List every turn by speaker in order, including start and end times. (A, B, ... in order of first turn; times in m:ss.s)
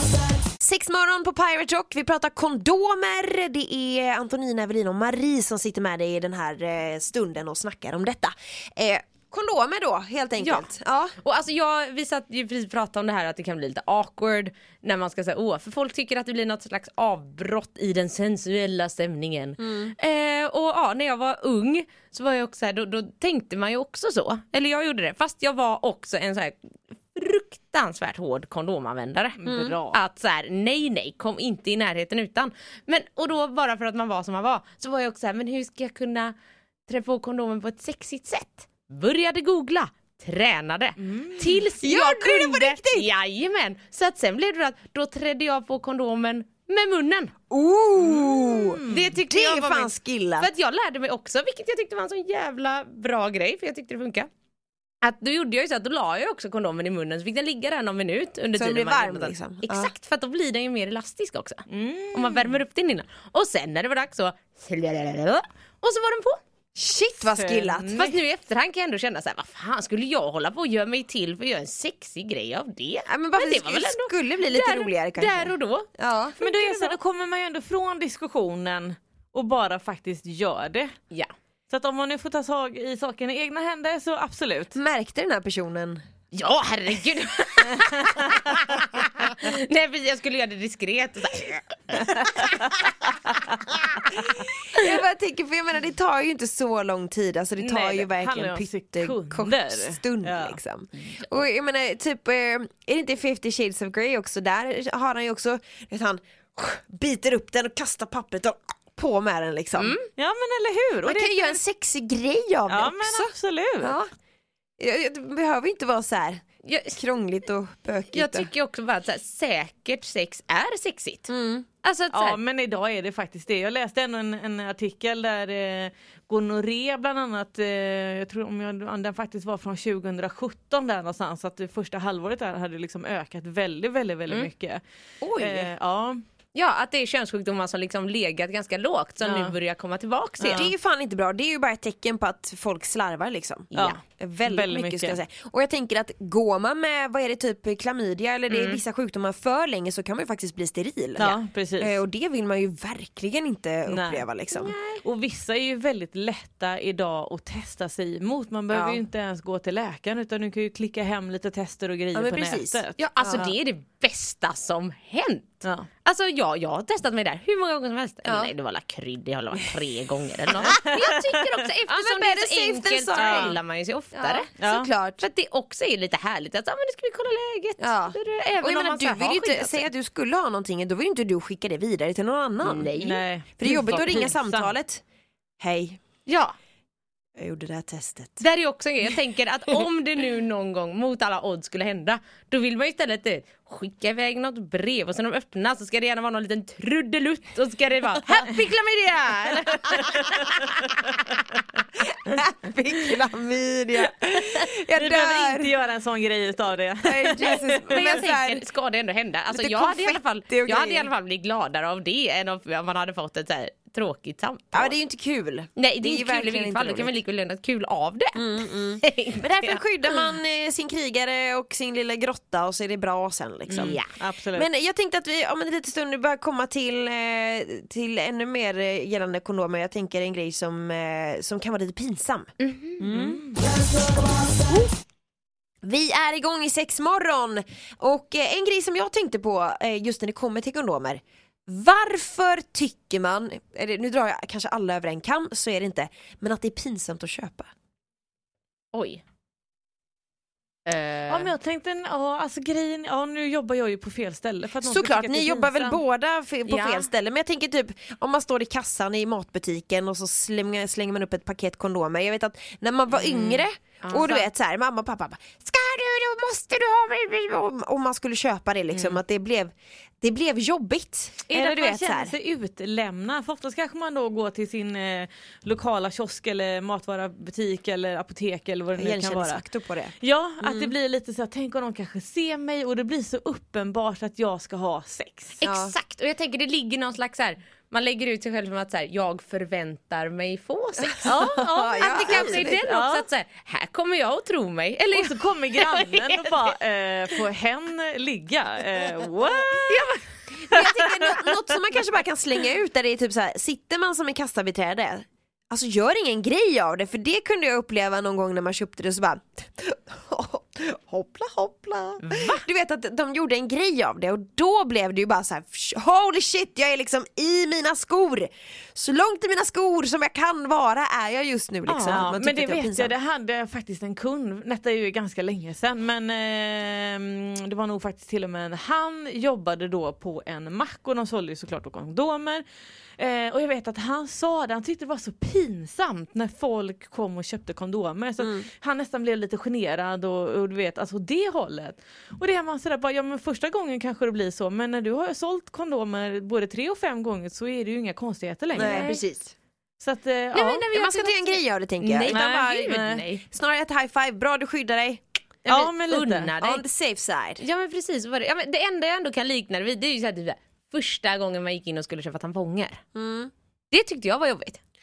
0:00.6-0:11.1 A
0:10.4-0:10.7 B
0:11.2-0:26.6 B
0:19.6-0:19.9 A
0:27.1-0:36.3 B
0:29.4-0:30.0 C
0:29.4-0:29.8 A
0:36.9-0:47.3 B
0:41.0-0:41.6 C
0:41.8-0:43.1 A
0:47.5-0:50.5 A
0:48.0-0:49.2 C
0:48.9-0:54.3 B
0:55.0-1:06.4 B
0:58.5-0:59.9 A
1:01.7-1:02.6 C
1:06.8-1:07.9 A
1:07.4-1:08.2 C
1:07.9-1:15.9 B
1:13.1-1:16.4 A
1:16.4-1:20.9 C
1:16.4-1:16.9 B
1:21.7-1:24.8 C
1:24.7-1:26.0 A
1:26.3-1:32.7 B
1:34.7-1:50.0 A
1:37.6-1:40.6 C
1:49.8-1:50.1 B
1:50.1-1:51.6 C
1:51.0-1:53.3 A
1:52.7-1:54.0 C
1:53.8-1:54.1 A
1:54.8-1:58.5 A
1:56.6-1:57.0 B
1:58.1-2:01.3 B
2:01.3-2:01.7 A
2:01.8-2:02.4 B
2:02.1-2:14.8 C
2:15.2-2:15.7 A
2:15.4-2:16.2 C
2:16.5-2:20.7 B
2:19.2-2:19.6 C
2:20.4-2:20.7 C
2:20.5-2:34.8 A
2:23.7-2:25.2 C
2:28.5-2:28.8 B
2:31.2-2:32.0 C
2:33.9-2:34.2 C
2:34.5-2:35.0 B
2:35.0-2:43.5 C
2:38.7-2:39.0 A
2:42.1-2:43.5 A
2:43.0-2:54.5 B
2:48.2-2:48.5 A
2:50.7-2:51.1 A
2:51.9-2:53.6 A
2:53.1-2:53.6 C
2:54.1-2:55.2 A
2:54.6-2:54.9 C
2:55.2-2:59.9 B
2:57.8-3:02.9 A
3:02.6-3:03.2 B
3:03.0-3:04.7 C
3:03.6-3:05.0 A
3:05.6-3:06.0 A
3:06.3-3:06.5 B
3:07.4-3:08.4 A
3:08.4-3:20.5 B
3:22.0-3:25.7 A
3:24.9-3:28.2 C
3:27.0-3:28.6 A
3:27.9-3:34.9 B
3:29.5-3:31.1 A
3:34.7-3:37.1 A
3:35.8-3:40.3 B
3:38.4-3:44.0 A
3:43.7-3:44.7 C
3:43.8-3:44.1 B
3:44.5-3:53.4 A
3:52.6-3:53.0 B
3:53.1-3:53.6 C
3:54.7-3:55.0 A
3:55.8-4:07.7 A
4:08.9-4:09.2 B
4:10.9-4:11.5 B
4:11.3-4:16.0 C
4:14.8-4:32.4 A
4:16.7-4:17.1 B
4:23.3-4:24.5 B
4:31.5-4:39.6 C
4:39.0-4:40.9 A
4:40.2-4:45.6 C
4:45.6-4:56.6 B
4:45.6-4:46.0 A
4:51.2-4:52.8 A
4:51.2-4:53.3 C
4:55.1-5:00.1 C
4:59.9-5:00.2 B
5:00.7-5:23.1 A
5:00.7-5:01.4 C
5:12.2-5:12.6 B
5:21.9-5:32.6 C
5:21.9-5:22.2 B
5:33.2-5:49.1 C
5:48.7-5:49.5 A
5:48.8-5:49.2 B
5:50.0-5:50.9 C
5:50.5-5:53.4 B
5:50.9-5:55.2 A
5:52.3-5:53.2 C
5:55.6-5:56.5 C
5:55.7-5:56.8 B
5:56.6-5:57.6 A
5:57.6-6:03.0 B
6:03.1-6:03.5 A
6:03.9-6:04.8 B